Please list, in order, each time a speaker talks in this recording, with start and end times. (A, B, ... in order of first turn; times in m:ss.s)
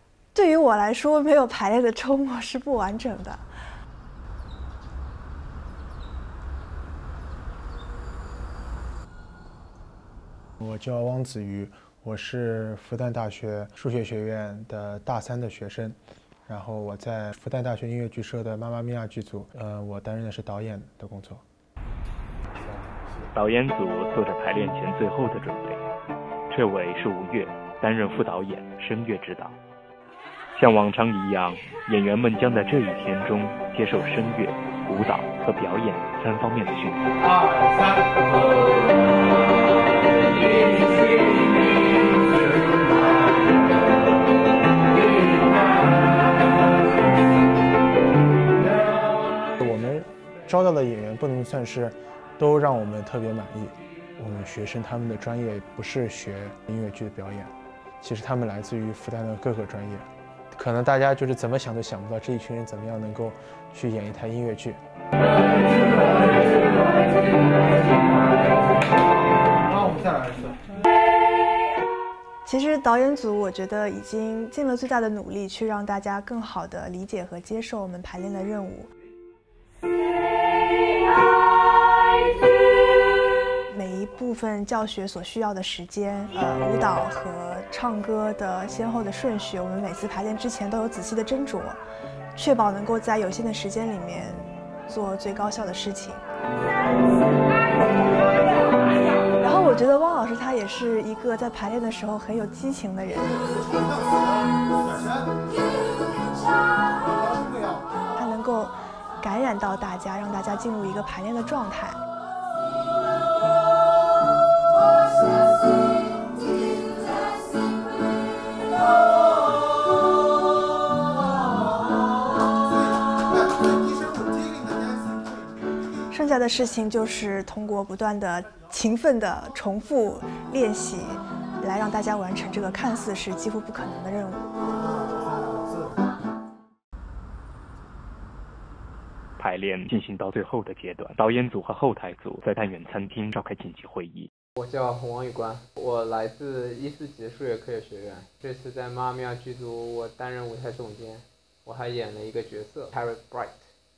0:00.3-0:03.5 A
0:10.6-0:21.4 B
0:23.3-0:25.8 C
0:26.5-0:29.6 C
0:30.5-0:37.1 C
0:37.3-0:38.1 B
0:49.3-1:04.8 B
1:05.8-1:06.4 B
1:09.6-1:10.8 B
1:12.4-1:18.9 A
1:23.7-1:31.8 A
1:32.3-1:36.2 A
1:39.4-1:43.5 A
1:48.2-1:52.0 A
2:06.1-2:14.5 A
2:19.4-2:24.3 C
2:24.5-2:33.7 D